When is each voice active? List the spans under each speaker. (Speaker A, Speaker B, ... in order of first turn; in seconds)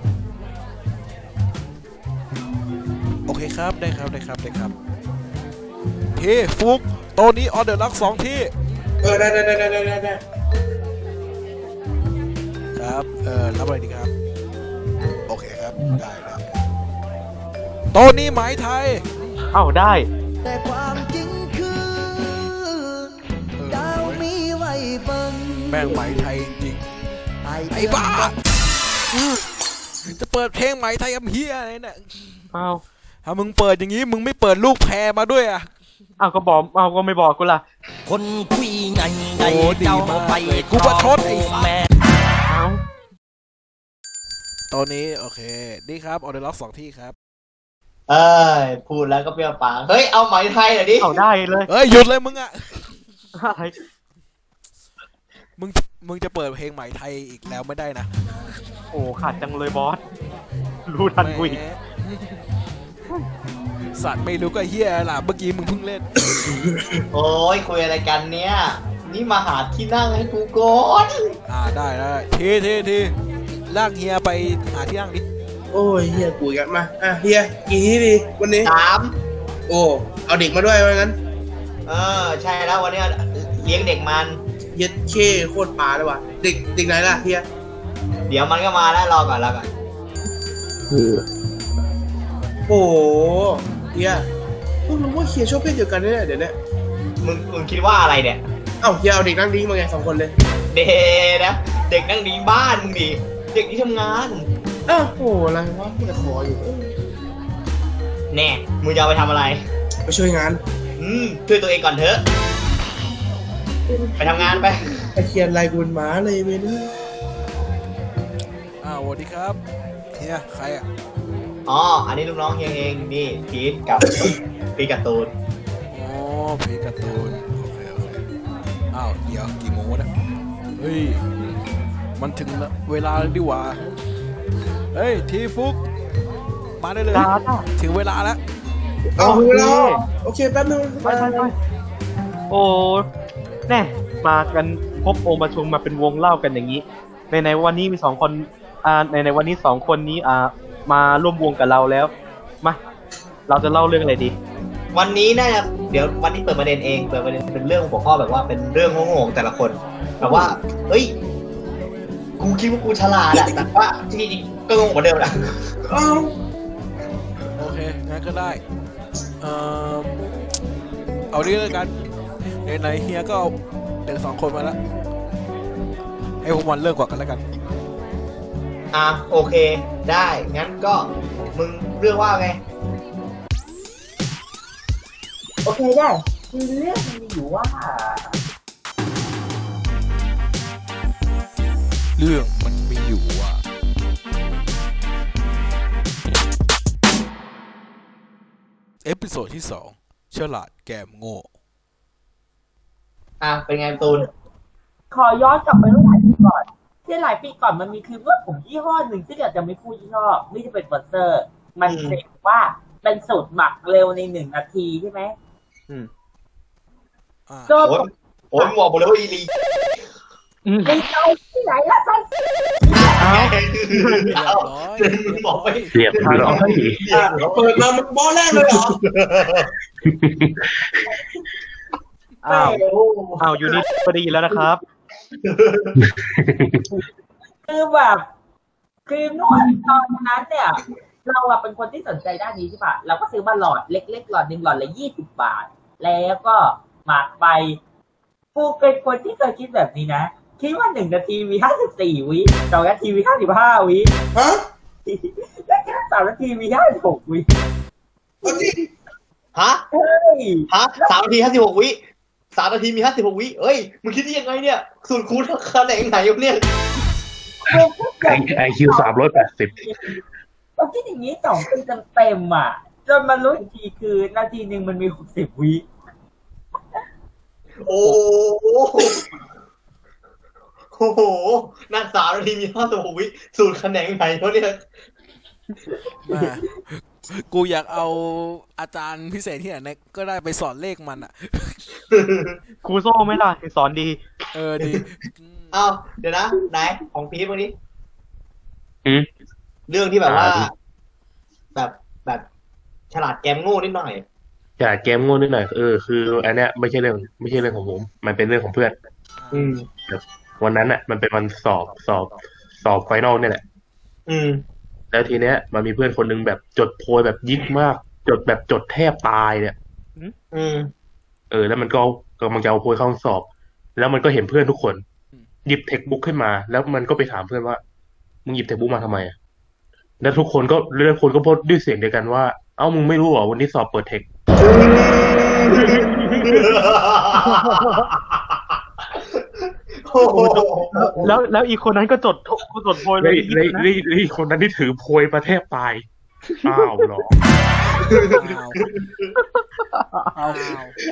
Speaker A: 3.3-4.7, 6.1-8.5, 12.7-14.1, 15.3-16.4, 17.9-19.1, 23.6-24.2, 25.7-26.9, 27.7-28.4, 30.1-32.5, 33.2-35.7, 39.4-41.7, 44.7-47.1, 51.7-53.0, 55.6-58.1, 61.2-62.4, 63.9-66.1, 71.5-73.2, 73.7-75.2, 118.8-119.6, 120.1-120.8, 125.9-128.2, 128.9-130.1, 130.8-131.2, 132.2-133.8, 134.9-135.8, 136.8-138.4, 167.6-168.6, 169.4-170.2, 171.3-171.9, 172.6-173.5, 174.0-174.8, 176.4-177.4, 192.2-193.6, 199.0-201.5, 217.5-217.7, 224.3-226.4, 286.2-291.8, 294.5-295.7, 309.4-309.7, 348.2-348.8, 350.3-350.9
Speaker B: 9.0-10.2, 66.3-67.0, 75.7-78.7, 79.7-81.2, 84.7-87.5, 92.7-94.2, 94.9-96.5, 98.8-100.3, 104.9-106.9, 110.1-110.6, 113.9-116.9, 139.1-141.5, 160.2-160.5, 163.3-163.6, 165.8-166.3, 227.1-229.0, 254.3-254.6, 258.4-258.8
Speaker C: 19.5-20.1, 32.5-32.8, 36.2-37.6, 42.5-42.8, 51.0-51.7, 53.4-53.7, 58.9-60.0, 60.9-61.6, 137.1-137.7, 139.2-140.0, 141.0-141.5, 142.5-143.1, 143.7-152.1, 153.5-154.3, 220.7-220.9, 223.2-224.3, 232.4-232.8, 233.4-234.8, 292.8-294.2, 335.7-336.7, 337.4-338.1, 341.2-343.9, 349.5-350.4
Speaker D: 20.4-26.3, 27.4-28.4, 38.0-41.9, 90.9-91.2
Speaker E: 48.1-51.2, 67.1-71.3, 78.6-79.2, 81.9-84.4, 88.3-89.7, 97.2-98.4, 100.7-104.5, 108.3-109.6, 111.0-112.2, 114.2-115.0, 121.7-125.3, 154.9-161.1, 162.4-165.7, 178.9-182.6, 203.4-204.3, 211.8-212.2, 217.8-219.5, 222.9-227.8, 228.7-229.7, 232.6-233.8, 235.4-236.0, 259.5-259.8, 260.7-262.0, 262.5-266.6, 277.8-279.2, 280.9-284.8, 292.1-292.6, 295.7-297.7, 299.9-300.7, 301.7-302.4, 303.1-304.2, 309.5-309.9, 314.3-314.6, 320.5-320.9, 334.6-338.8, 340.1-341.3, 348.0-349.3
Speaker F: 185.6-188.4, 205.1-215.3, 217.7-218.7, 220.8-222.3, 222.8-223.2, 237.7-238.2, 239.1-247.8, 248.5-254.1, 255.1-257.5, 258.4-258.8, 259.9-261.2, 267.7-269.1, 269.8-270.2, 270.8-275.8
Speaker G: 225.9-227.0, 230.0-231.2, 235.9-236.9, 267.7-270.2, 300.2-300.7, 304.8-308.9, 310.1-313.6, 315.1-319.8, 321.5-325.0, 325.6-327.8, 328.4-329.3, 330.2-334.3, 343.2-346.0, 346.6-347.4